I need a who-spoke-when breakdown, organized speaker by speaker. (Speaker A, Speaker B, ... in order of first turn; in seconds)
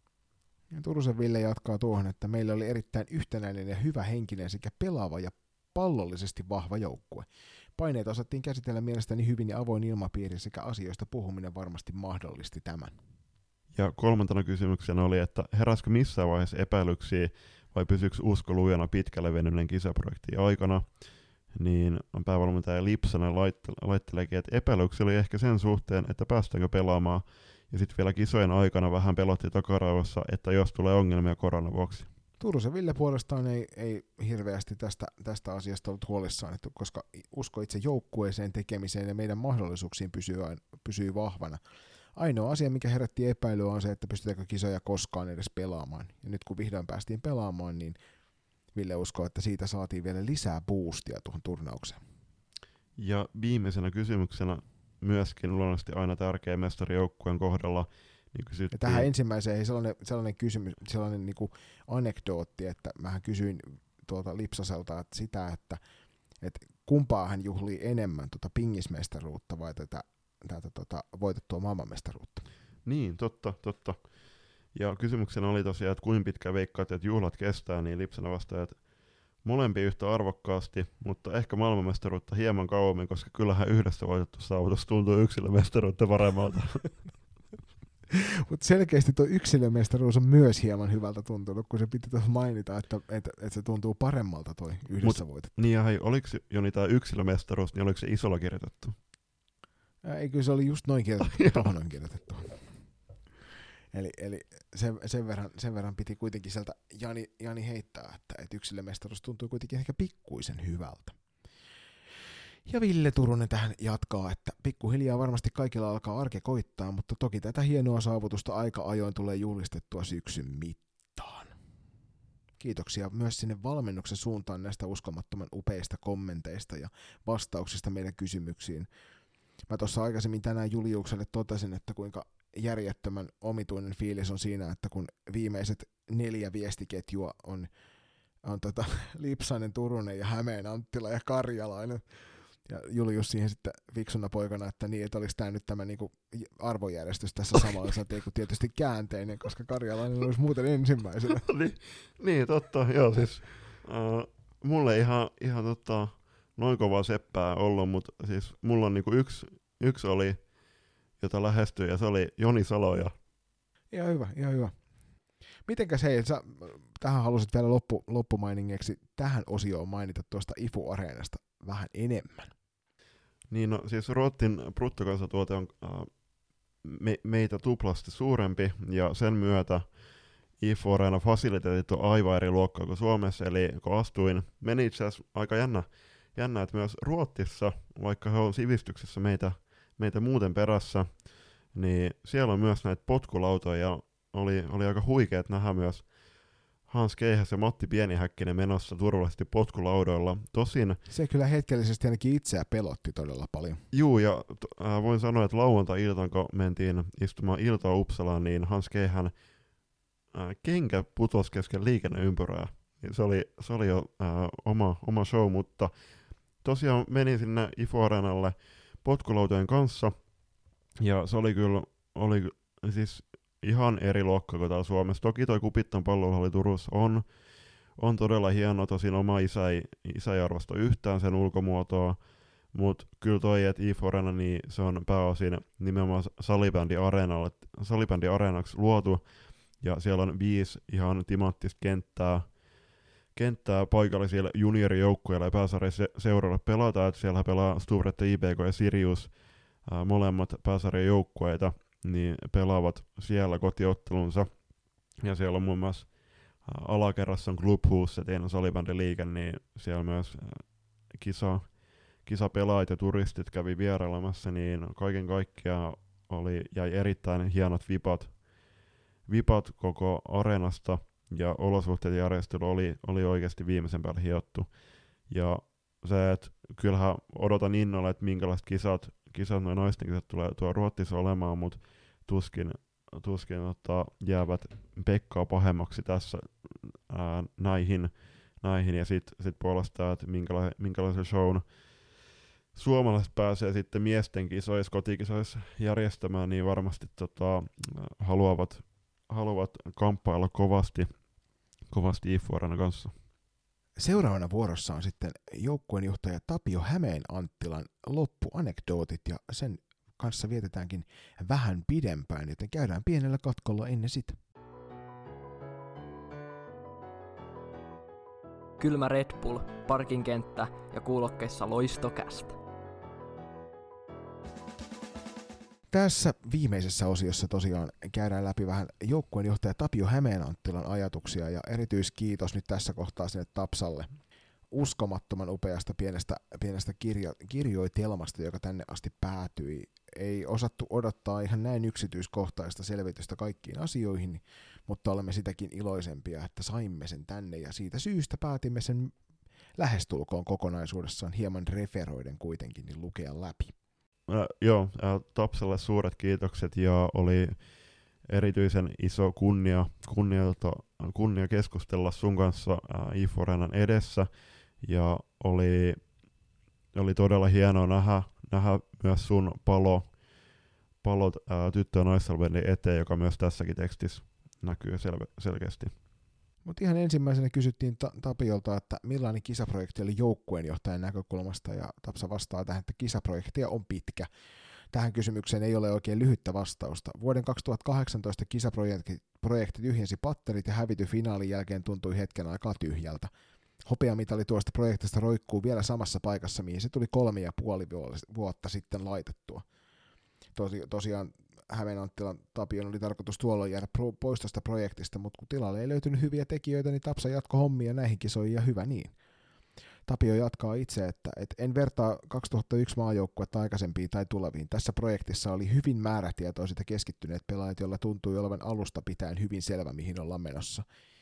Speaker A: 0.7-12.9, 32.4-41.6, 42.1-48.0, 48.7-52.0, 58.7-65.8, 66.4-72.5, 88.1-95.5, 100.0-102.6, 103.9-111.2, 112.7-121.5, 122.6-128.9, 129.7-137.7, 138.4-142.0, 142.7-151.4, 163.9-164.7, 165.7-172.5, 201.1-203.8, 304.0-314.4, 325.9-334.1, 334.7-349.1, 349.8-353.7, 376.6-384.3, 384.9-393.3, 393.8-399.6, 400.5-409.1, 410.1-420.8
Speaker B: 13.7-20.8, 21.5-32.1, 53.0-59.1, 72.8-74.0, 74.7-78.8, 79.4-87.0, 95.0-99.0, 151.4-160.4, 161.2-163.1, 173.5-176.1, 176.8-179.8, 180.6-191.2, 191.7-196.1, 196.9-201.0, 203.9-209.3, 210.3-215.9, 216.6-220.1, 221.0-227.2, 228.0-232.2, 232.7-239.2, 239.8-242.5, 243.3-249.3, 249.8-254.5, 255.2-256.1, 256.6-261.7, 262.2-268.3, 269.3-274.7, 275.3-291.6, 292.7-301.1, 301.9-303.1, 354.3-357.6, 358.3-364.3, 364.8-366.0, 366.9-370.1, 371.0-375.9
Speaker C: 318.8-322.6